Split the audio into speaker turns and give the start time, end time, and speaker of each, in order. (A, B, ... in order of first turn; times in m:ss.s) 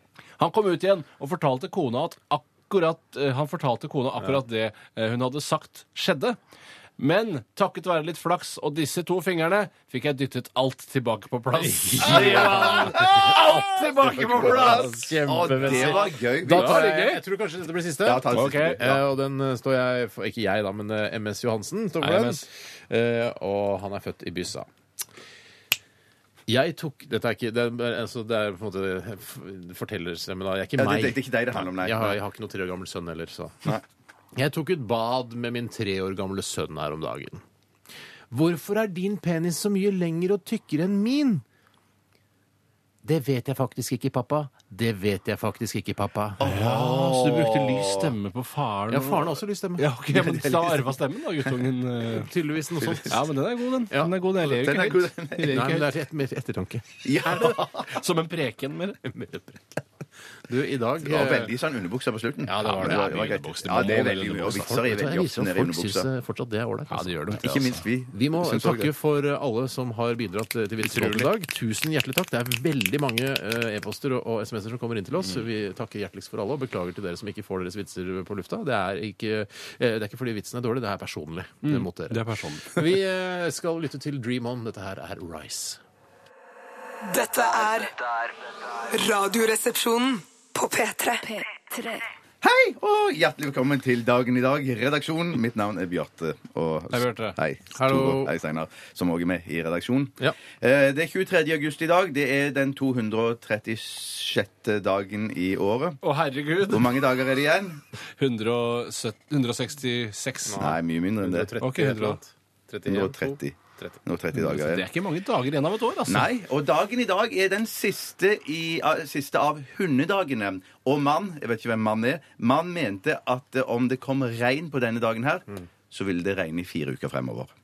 0:00.4-0:06.4 A
0:07.0-0:17.2 A
0:11.6-0:24.7 B
0:12.0-0:16.8 C
0:18.0-0:19.0 C
0:18.3-0:18.8 A
0:22.0-0:22.4 A
0:26.5-0:33.7 B
0:30.8-0:32.2 C
0:34.3-0:37.4 B
0:38.3-0:41.4 B
0:43.0-0:46.4 B
0:46.4-0:48.1 C
0:46.4-0:52.3 A
0:48.9-0:49.9 B
0:50.1-0:51.0 C
0:52.0-0:53.2 B
0:53.0-0:55.9 A
0:54.4-0:55.7 C
0:55.4-0:57.4 B
0:57.0-0:57.9 C
0:57.2-0:59.0 A
0:59.0-0:59.8 B
1:00.5-1:01.6 B
1:01.0-1:06.1 C
1:02.5-1:03.3 B
1:02.5-1:04.7 A
1:03.9-1:07.6 B
1:06.9-1:07.8 A
1:07.4-1:08.9 C
1:08.1-1:25.8 B
1:10.8-1:11.3 A
1:21.6-1:23.0 A
1:27.0-1:27.9 D
1:28.9-1:32.0 D
1:32.4-1:46.0 C
1:36.9-1:37.4 A
1:37.7-1:38.3 B
1:46.0-1:47.0 A
1:46.6-1:47.8 C
1:48.2-1:50.7 A
1:50.4-1:54.0 B
1:50.6-1:51.5 C
1:51.6-1:52.2 A
1:52.8-1:54.8 C
1:54.3-1:56.3 A
1:56.1-2:07.5 C